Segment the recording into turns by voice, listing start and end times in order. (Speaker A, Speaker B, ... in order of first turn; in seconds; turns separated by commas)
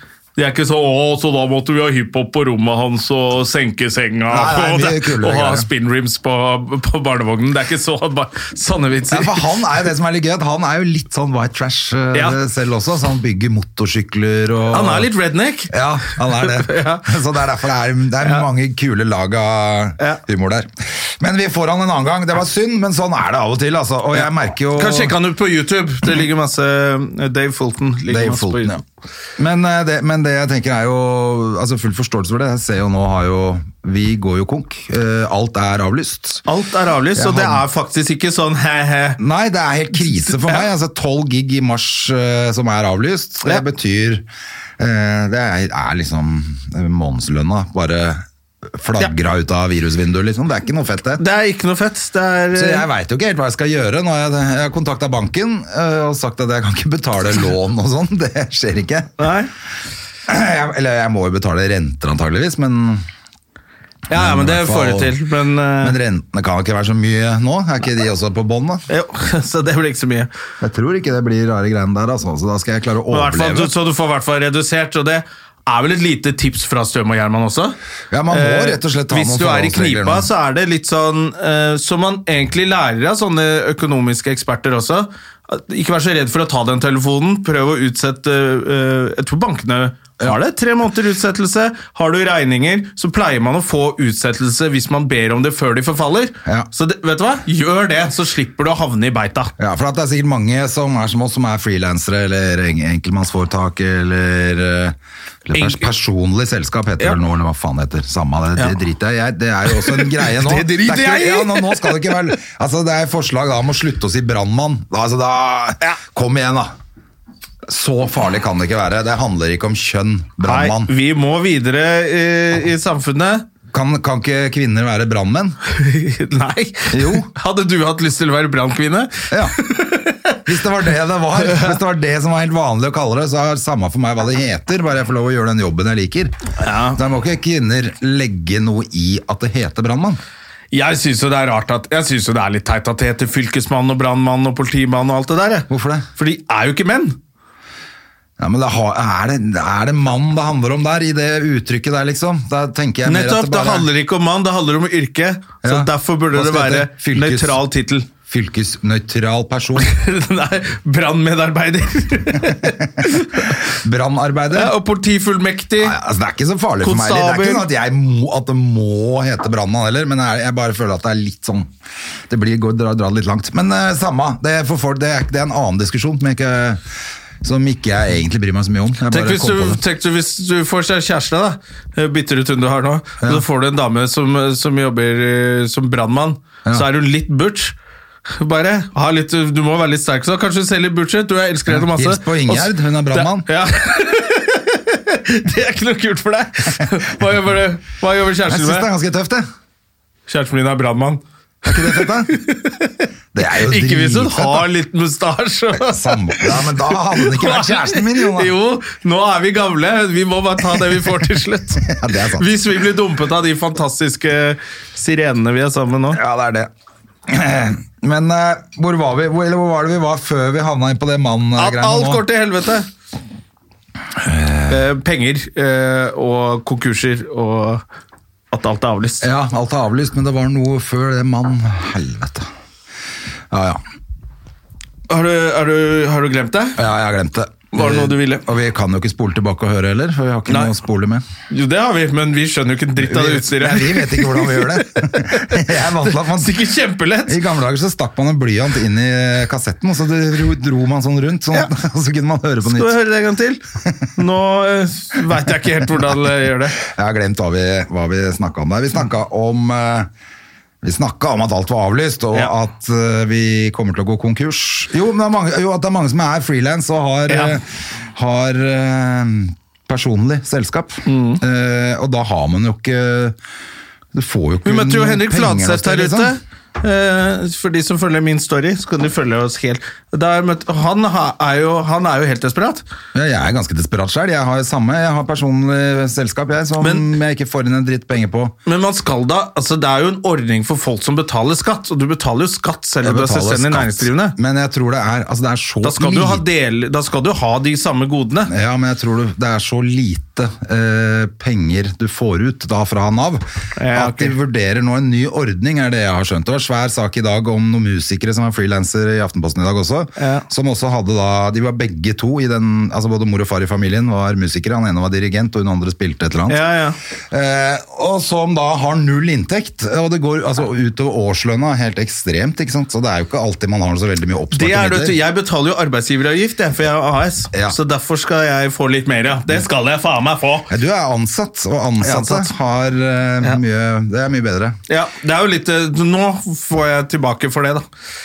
Speaker A: 0.4-9.5, Speaker B: 4.3-5.7, Speaker B: 9.1-15.1, Speaker A: 12.1-12.4, Speaker A: 14.7-17.1, Speaker B: 15.7-25.2, Speaker A: 18.2-18.5, Speaker A: 24.2-28.8, Speaker B: 28.1-28.8, Speaker B: 29.4-36.5, Speaker A: 36.5-39.2, Speaker B: 37.2-37.6, Speaker B: 39.2-44.3, Speaker A: 40.0-40.7, Speaker B: 44.8-51.2, Speaker A: 51.2-52.9, Speaker B: 52.5-59.2, Speaker A: 59.2-59.5, Speaker B: 60.3-63.0, Speaker A: 64.1-66.0, Speaker B: 64.1-65.2, Speaker B: 65.8-68.8, Speaker A: 68.9-70.3, Speaker B: 70.6-73.7, Speaker A: 73.1-77.8, Speaker B: 78.1-80.3, Speaker A: 78.3-99.5, Speaker B: 99.6-105.0, Speaker B: 105.5-116.7, Speaker A: 105.5-105.9, Speaker A: 109.7-112.4, Speaker B: 117.7-120.9, Speaker A: 120.4-123.5, Speaker B: 123.7-125.6, Speaker A: 125.7-130.4, Speaker B: 126.9-127.3, Speaker B: 129.3-129.6, Speaker B: 130.4-136.4, Speaker A: 131.4-131.8, Speaker A: 136.6-137.0, Speaker B: 136.9-140.2, Speaker A: 140.7-147.2, Speaker B: 145.7-146.1, Speaker B: 148.4-153.9, Speaker A: 153.1-158.1, Speaker B: 155.6-157.6, Speaker B: 158.2-159.9, Speaker A: 159.8-163.6, Speaker B: 162.4-164.7, Speaker A: 164.5-166.0, Speaker B: 165.8-171.7, Speaker A: 166.8-167.7, Speaker B: 172.3-176.8, Speaker B: 177.4-179.8, Speaker A: 179.1-187.8, Speaker A: 188.3-198.9, Speaker B: 191.7-193.5, Speaker B: 198.5-199.4, Speaker A: 200.3-216.2, Speaker B: 201.7-202.3, Speaker B: 203.3-204.7, Speaker B: 205.8-208.5, Speaker B: 211.8-212.5, Speaker B: 216.1-216.7, Speaker B: 217.3-222.2, Speaker A: 221.6-222.9, Speaker B: 224.2-224.8, Speaker A: 224.7-227.8, Speaker A: 228.5-229.3, Speaker B: 229.2-232.5, Speaker B: 233.5-233.8, Speaker A: 235.1-236.8, Speaker B: 236.8-241.2, Speaker A: 237.7-238.5, Speaker A: 240.5-240.7, Speaker A: 241.5-247.4, Speaker B: 243.0-246.6, Speaker B: 247.3-253.0, Speaker A: 252.7-253.6, Speaker A: 254.2-256.8, Speaker B: 256.8-260.1, Speaker B: 260.8-273.4, Speaker A: 267.3-267.6, Speaker A: 271.1-271.4, Speaker B: 274.1-276.4, Speaker A: 274.6-282.8, Speaker B: 283.1-288.6, Speaker A: 286.8-287.1, Speaker A: 288.7-294.4, Speaker B: 293.0-296.4, Speaker A: 295.8-298.5, Speaker B: 298.5-316.6, Speaker A: 303.8-304.4, Speaker A: 310.2-310.4, Speaker A: 316.5-317.0, Speaker B: 317.3-325.2, Speaker A: 324.5-330.7, Speaker B: 330.7-334.8, Speaker A: 332.0-332.5, Speaker A: 334.9-337.8